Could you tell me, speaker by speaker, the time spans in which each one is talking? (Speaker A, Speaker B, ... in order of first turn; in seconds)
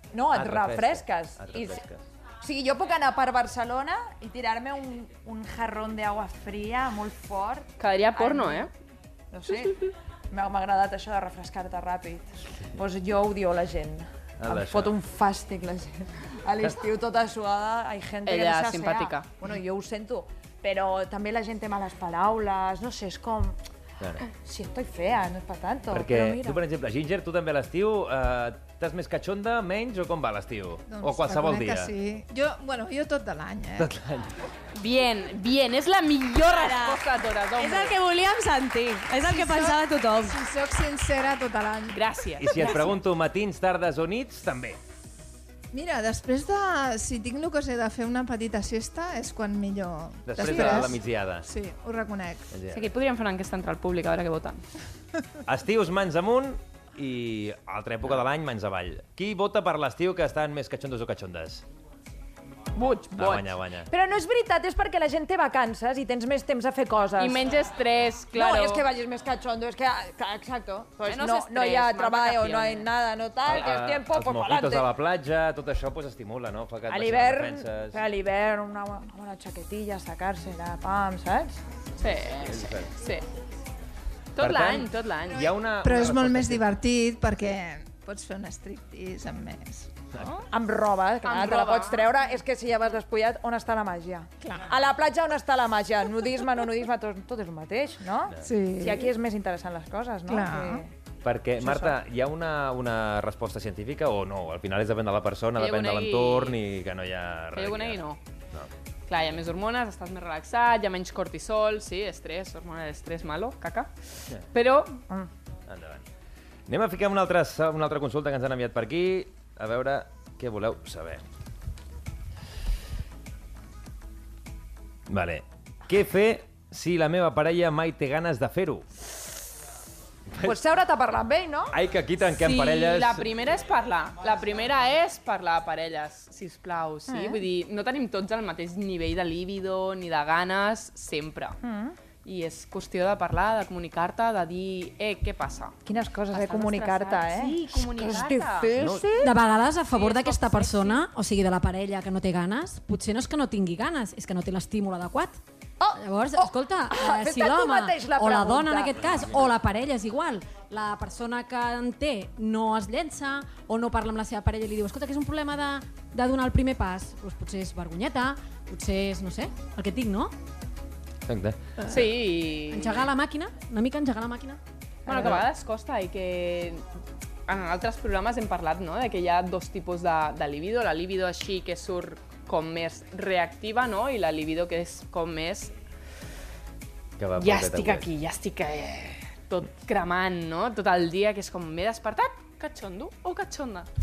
Speaker A: 0.1-1.8, 2.4-8.7, 9.3-23.6, 24.3-26.6, 63.9-67.6, 68.3-74.9, 76.9-81.6, 90.5-100.9, 101.6-102.0, 130.4-131.8, 137.1-137.4, 141.6-142.0, 145.8-149.3, 155.8-159.0, 175.1-175.4
Speaker B: 0.3-2.0, 14.4-14.9, 25.9-31.9, 33.8-34.4, 42.4-44.8, 50.3-51.5, 52.5-52.9, 55.5-61.6, 63.1-63.9, 73.5-78.0, 82.4-82.9, 84.4-86.7, 101.2-108.7, 115.7-116.0, 116.7-121.2, 125.1-128.9, 130.3-130.6, 131.7-133.3, 148.8-149.1, 171.3-171.6, 187.2-188.1
Speaker C: 7.8-8.7, 18.3-19.3, 34.8-38.0, 41.9-42.8, 52.7-54.6, 62.8-63.5, 67.2-68.9, 71.1-72.9, 82.0-83.2, 84.3-85.5, 91.2-92.1, 105.6-106.6, 107.5-108.2, 109.1-113.9, 114.5-115.0, 132.3-141.6, 142.2-145.8, 146.3-148.8, 149.9-151.0, 171.9-173.1, 175.1-176.8, 177.5-185.7, 187.4-193.9
Speaker D: 30.9-33.9, 39.2-42.9, 45.7-52.5, 85.8-90.5, 94.4-94.7, 98.4-99.1, 100.3-100.8
Speaker E: 36.4-37.0, 37.6-40.4
Speaker F: 149.2-155.4, 155.9-170.3, 171.8-172.1, 172.7-174.6